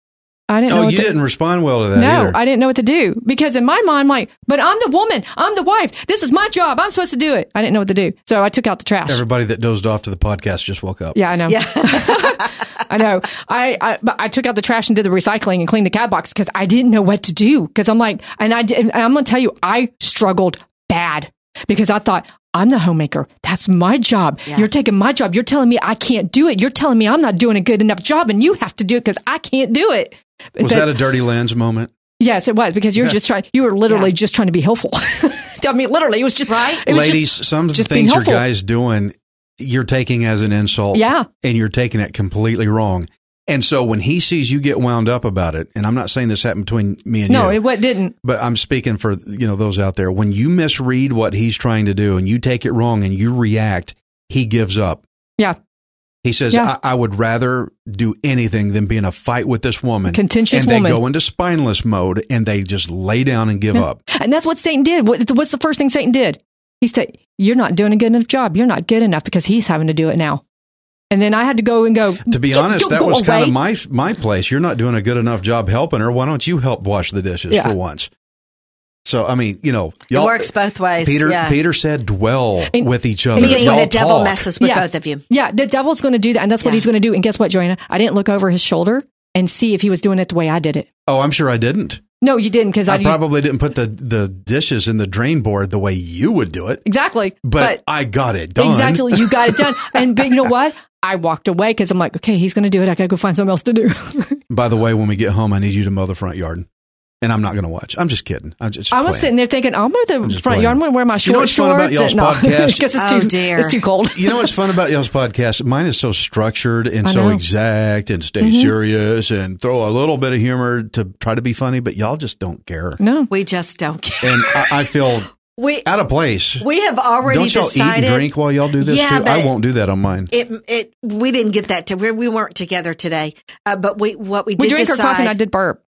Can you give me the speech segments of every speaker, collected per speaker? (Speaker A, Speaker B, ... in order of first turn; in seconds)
Speaker A: 0.5-1.1, 1.9-9.2, 11.1-31.0, 32.2-38.4, 40.9-41.3, 47.3-48.1, 60.1-61.0, 63.7-70.4, 71.1-73.5, 82.7-83.8, 84.6-90.9, 92.2-93.2, 96.8-97.8, 98.5-104.4, 108.9-114.5, 117.0-117.4, 118.4-118.7, 123.0-123.3, 134.6-135.8
Speaker B: 0.7-2.4, 9.1-11.2, 30.6-31.9, 36.9-47.6, 48.2-55.0, 56.2-64.0, 72.2-78.1, 79.0-84.5, 91.1-92.0, 92.9-96.8, 97.4-100.3, 104.5-106.7, 107.2-109.3, 110.2-112.8, 114.1-123.0, 124.2-125.3, 125.8-126.6, 127.2-130.3
Speaker C: 11.5-12.5, 36.5-36.8, 80.1-81.6, 83.3-85.2, 113.0-113.8, 123.3-125.9, 126.6-129.5, 130.3-135.3